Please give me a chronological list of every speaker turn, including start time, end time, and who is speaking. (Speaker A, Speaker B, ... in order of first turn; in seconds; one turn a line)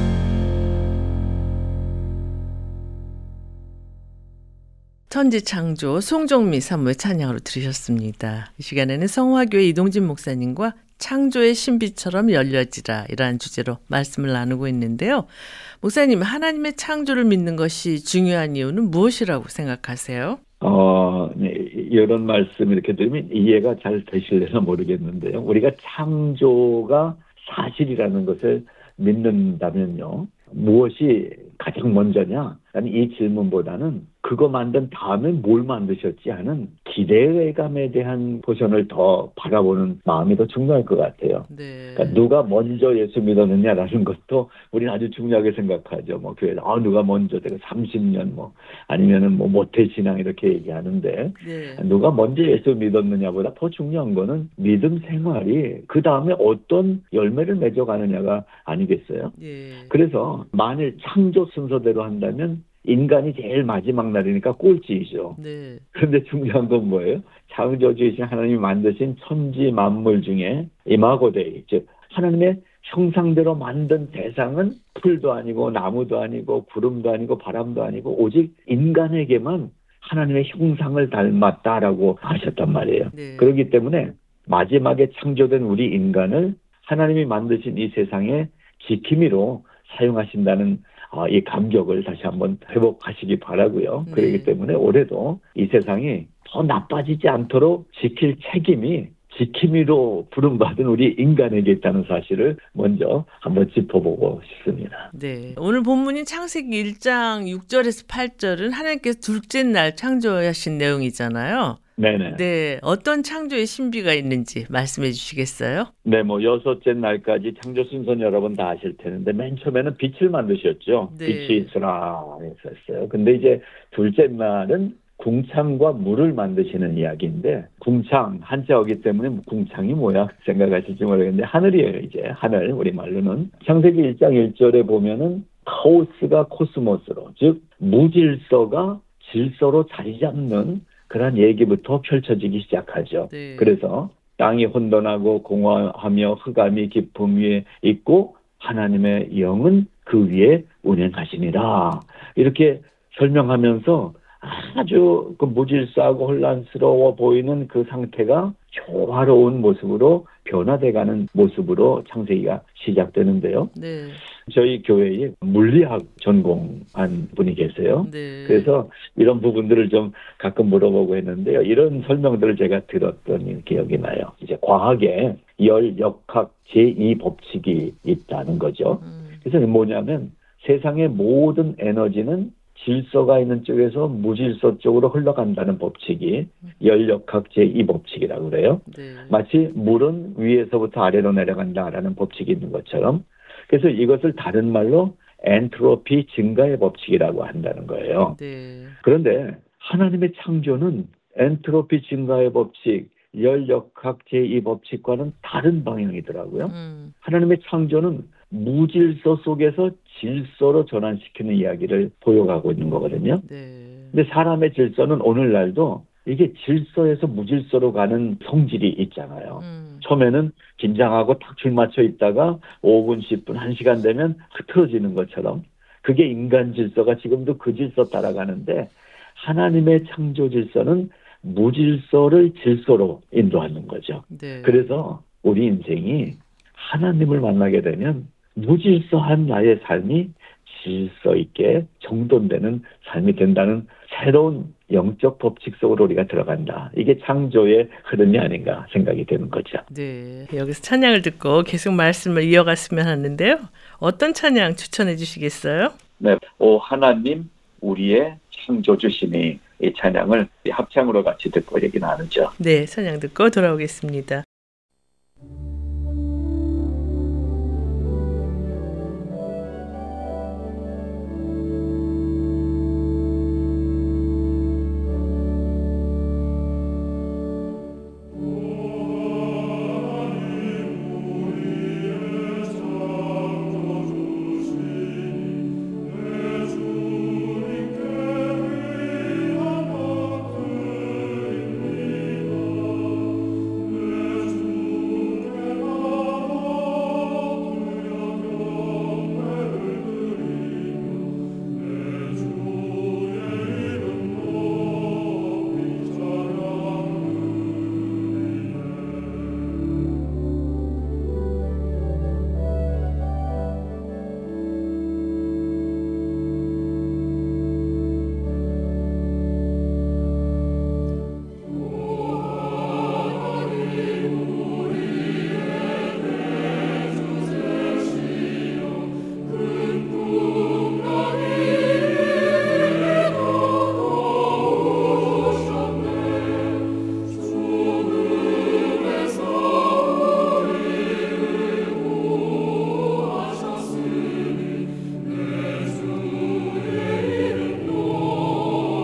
Speaker A: 5.1-15.3
Speaker A: 15.8-20.4
Speaker B: 20.6-59.4
Speaker A: 41.5-42.2
Speaker A: 51.4-51.8
Speaker A: 59.4-59.9
Speaker B: 59.9-65.4
Speaker A: 65.4-65.8
Speaker B: 65.9-105.1
Speaker A: 83.1-83.6
Speaker A: 94.1-94.5
Speaker A: 105.1-115.9
Speaker B: 112.0-112.4
Speaker B: 116.0-163.7
Speaker A: 121.1-121.7
Speaker A: 143.3-143.8
Speaker A: 163.7-164.2
Speaker B: 164.4-198.4
Speaker A: 168.0-168.7
Speaker A: 179.0-179.4
Speaker A: 188.9-189.4
Speaker A: 198.3-198.9
Speaker B: 199.0-213.4
Speaker A: 206.7-207.1
Speaker A: 213.4-214.2
Speaker B: 214.1-249.8
Speaker A: 219.6-220.1
Speaker A: 234.3-234.9
Speaker A: 249.9-255.9
Speaker B: 256.2-262.5
Speaker A: 262.6-264.4